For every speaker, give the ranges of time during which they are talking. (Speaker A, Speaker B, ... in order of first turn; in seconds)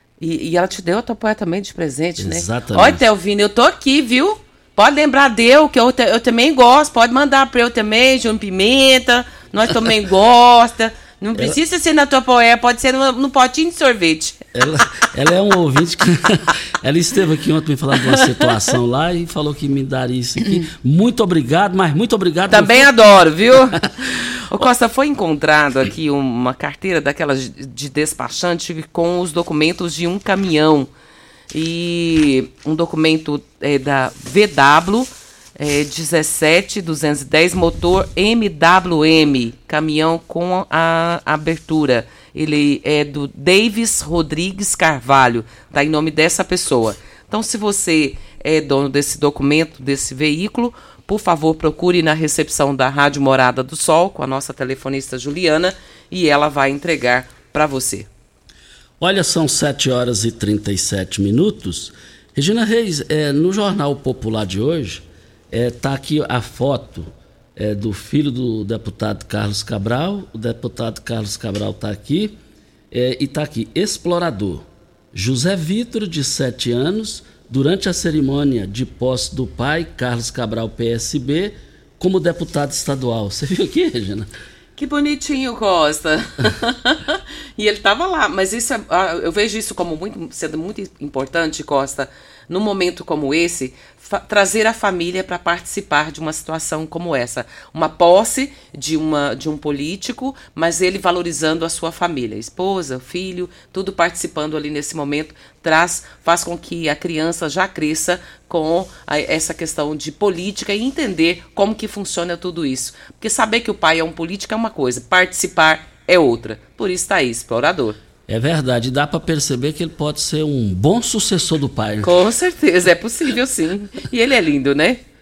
Speaker A: 0.2-14.4, 22.5-23.8, 24.5-30.9, 31.5-58.1, 84.8-118.0, 122.0-125.0
Speaker B: 2.2-3.0, 14.5-23.2, 59.0-72.4, 72.9-84.3, 118.3-122.1